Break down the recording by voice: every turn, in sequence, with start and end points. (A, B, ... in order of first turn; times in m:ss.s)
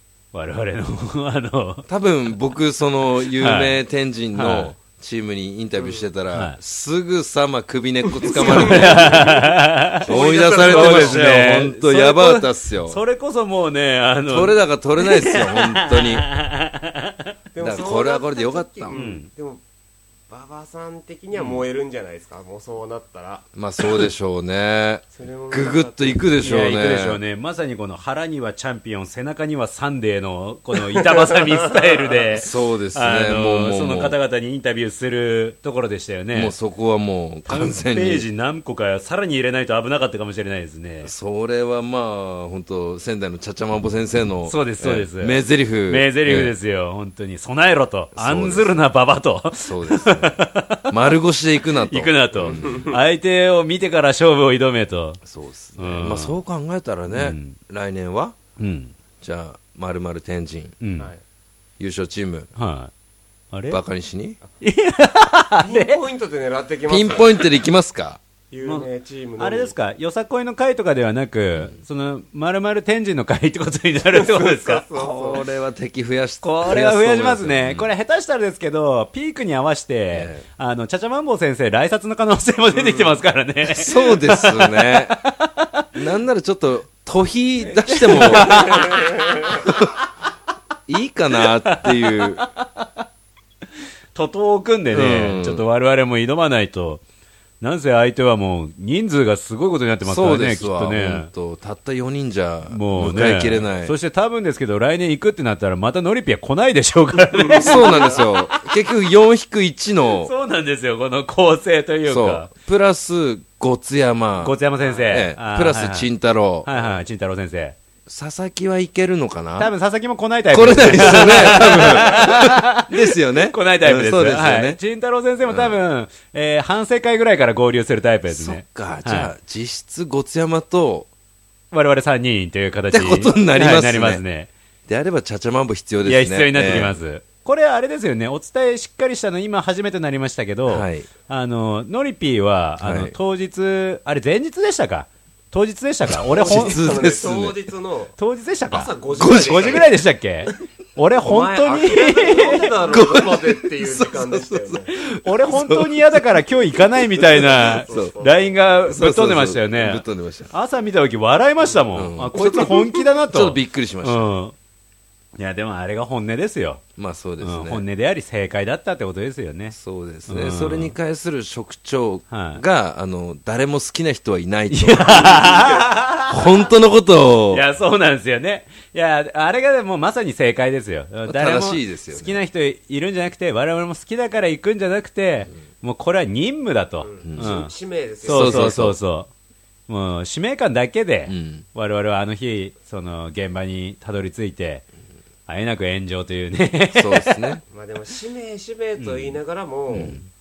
0:00.3-0:01.9 A
0:01.9-0:09.3 B
0:03.4-0:03.8 A
0:04.3-0:04.8 A
0:05.8-0:06.1 C
0:06.3-0:06.6 A
0:08.1-0:09.5 C
0:08.4-0:17.3 A
0:10.0-0:11.4 C
0:10.1-0:13.0 B
0:14.3-0:16.3 B
0:17.5-0:19.6 C
0:17.6-0:19.0 B
0:18.9-0:19.3 A
0:20.3-0:23.5 C
0:23.6-0:27.2 B
0:25.1-0:26.3 C
0:26.4-0:36.5 A
0:31.0-0:32.0 C
0:32.3-0:34.2 B
0:36.3-0:38.3 B
0:37.5-0:41.1 A
0:41.0-0:46.5 B
0:44.5-0:51.0 A
0:48.2-0:48.8 B
0:49.6-0:52.9 B
0:51.8-0:55.2 A
0:52.5-0:53.0 C
0:55.3-0:58.4 B
0:55.8-0:56.4 A
0:57.1-0:57.6 A
0:58.6-0:59.0 A
0:59.2-1:00.8 B
1:00.8-1:01.1 A
1:01.8-1:02.5 B
1:02.6-1:02.9 A
1:03.5-1:03.8 A
1:03.7-1:04.4 B
1:04.6-1:06.0 A
1:05.6-1:07.6 C
1:06.9-1:08.2 B
1:08.5-1:09.7 C
1:09.4-1:14.8 A
1:14.1-1:15.4 C
1:14.9-1:17.9 B
1:16.4-1:25.9 A
1:20.1-1:20.4 B
1:22.8-1:23.1 C
1:23.6-1:25.2 B
1:26.0-1:28.9 B
1:27.7-1:29.7 A
1:28.5-1:29.5 C
1:29.6-1:29.9 B
1:30.9-1:32.4 B
1:31.6-1:32.9 A
1:34.1-1:37.0 A
1:34.9-1:35.6 B
1:37.6-1:41.3 A
1:40.0-1:43.9 B
1:42.7-1:48.2 A
1:47.3-1:48.2 C
1:47.6-1:50.3 B
1:50.2-1:52.5 A
1:52.1-1:56.7 B
1:54.4-1:56.1 A
1:56.6-1:57.8 A
1:58.1-1:59.7 B
1:59.6-2:09.3 A
2:00.5-2:04.8 B
2:05.5-2:05.8 B
2:08.3-2:11.1 B
2:11.7-2:14.5 A
2:12.9-2:14.2 B
2:14.9-2:17.0 B
2:16.0-2:26.8 A
2:20.7-2:21.1 B
2:22.8-2:23.2 B
2:26.1-2:27.6 B
2:26.4-2:28.2 C
2:28.2-2:32.8 A
2:28.7-2:29.9 C
2:29.2-2:29.9 B
2:31.2-2:34.9 C
2:32.8-2:36.2 B
2:35.1-2:44.6 A
2:37.0-2:38.1 B
2:37.9-2:38.5 C
2:38.9-2:40.5 B
2:41.9-2:44.3 B
2:45.4-2:46.8 A
2:47.0-2:47.8 B
2:47.4-2:51.0 A
2:49.7-2:55.6 B
2:52.3-2:52.6 A
2:54.7-2:56.4 A
2:56.3-2:57.6 B
2:57.5-3:07.7 A
3:01.3-3:02.4 B
3:07.0-3:08.8 C
3:07.2-3:07.5 B
3:08.2-3:09.3 A
3:08.2-3:09.0 B
3:09.9-3:14.9 A
3:11.3-3:11.6 B
3:15.5-3:17.6 A
3:16.9-3:17.6 B
3:17.7-3:20.2 C
3:19.0-3:19.4 A
3:19.9-3:20.2 B